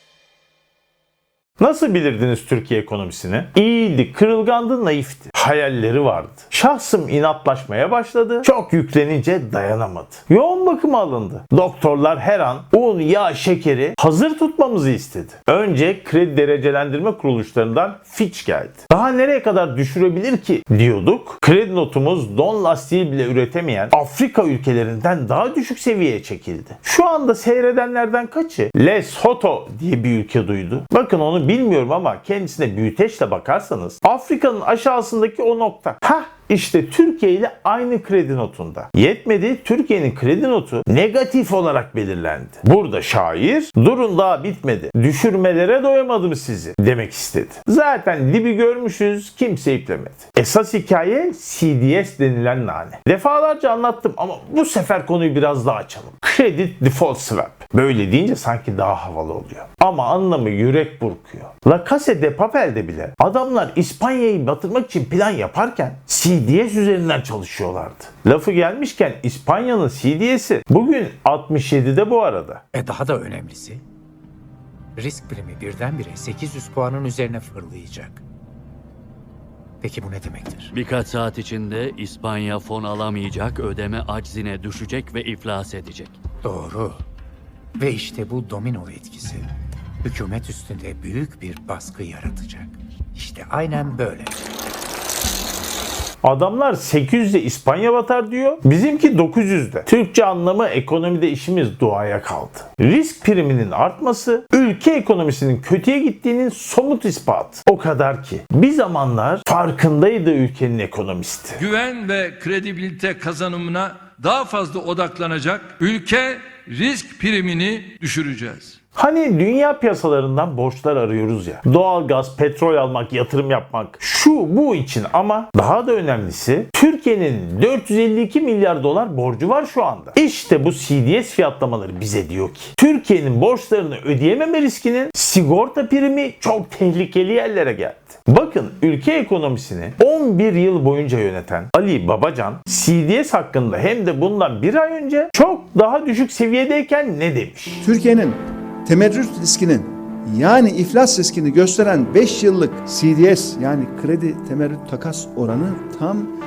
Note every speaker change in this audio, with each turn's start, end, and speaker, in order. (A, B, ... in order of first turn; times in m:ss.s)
0:01.6-1:12.6 A
1:12.7-1:13.8 B
1:15.0-1:18.2 B
1:19.8-1:20.7 B
1:20.7-1:26.2 C
1:26.4-1:27.0 B
1:27.8-1:29.5 B
1:30.0-1:34.3 B
1:36.2-1:51.6 A
1:51.6-1:58.8 D
1:58.9-2:27.9 A
2:27.8-2:36.3 E